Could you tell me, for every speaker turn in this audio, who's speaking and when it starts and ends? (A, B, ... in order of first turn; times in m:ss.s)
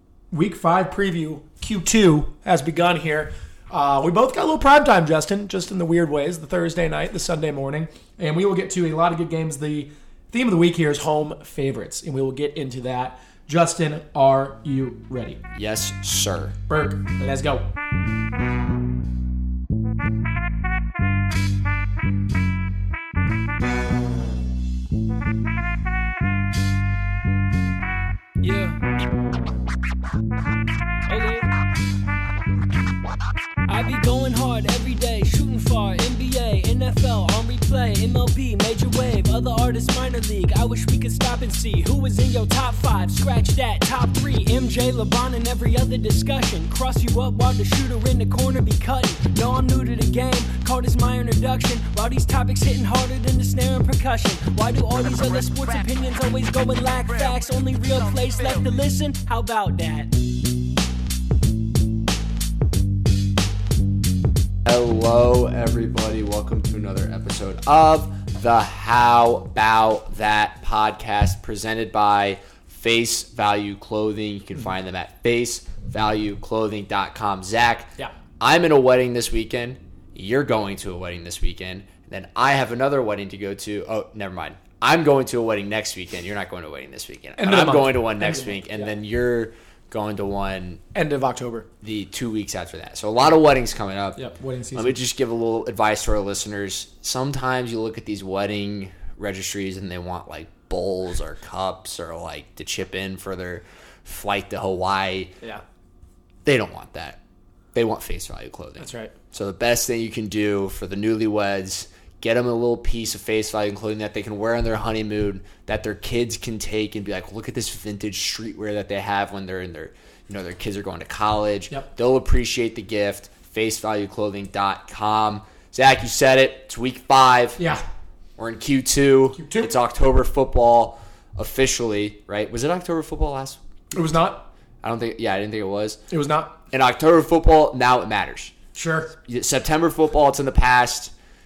0:00.3-0:15.4 A
0:15.5-0:16.6 B
0:16.7-0:17.7 A
0:28.4-0:28.8 C
0:31.1-0:31.5 C
0:33.7-1:00.1 C
1:04.6-1:30.8 B
1:27.4-1:28.9 A
1:30.9-1:31.7 A
1:31.8-1:34.2 B
1:34.2-1:35.0 A
1:34.7-1:45.3 B
1:46.4-1:47.2 B
1:47.7-2:07.6 B
1:48.8-1:49.1 A
2:07.6-2:07.8 A
2:08.4-2:13.6 B
2:09.4-2:09.7 A
2:13.9-2:14.5 A
2:14.8-2:16.0 B
2:16.1-2:16.6 A
2:16.7-2:18.5 B
2:18.7-2:19.1 A
2:19.2-2:21.1 B